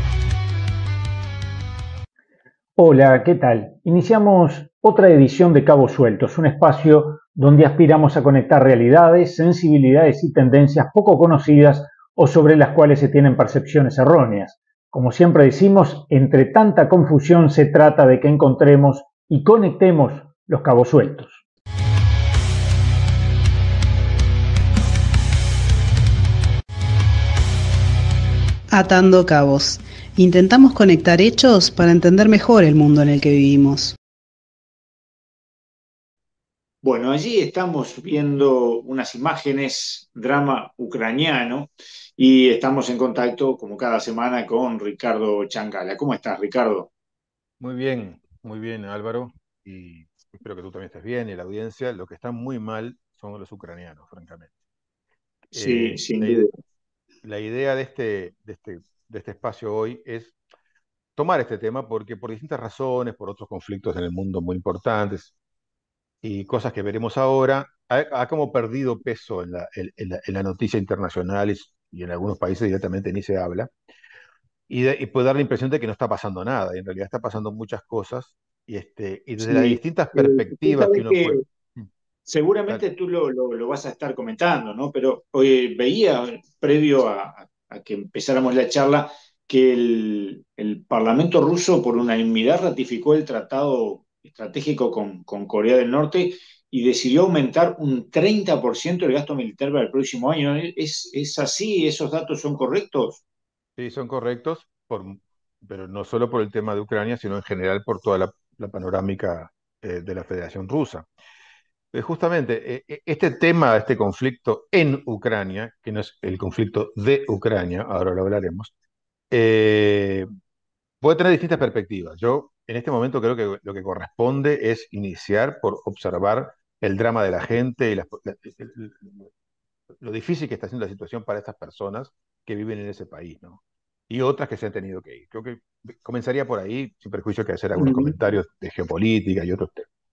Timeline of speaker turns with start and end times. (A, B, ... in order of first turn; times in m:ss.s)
0:02.8-0:21.4 A
0:28.7-0:34.0 B
0:36.8-0:46.9 C
0:47.6-0:54.5 D
0:55.5-0:56.5 D
0:55.5-0:56.5 C
0:57.2-1:00.4 D
1:01.2-1:05.3 D
1:06.2-1:13.7 D
1:14.7-1:21.9 D
1:19.4-1:21.4 C
1:22.3-1:43.2 C
1:43.8-1:51.1 D
1:51.9-1:58.7 D
1:59.3-2:00.2 D
2:01.0-2:09.3 D
2:10.0-2:19.9 D
2:17.8-2:18.1 C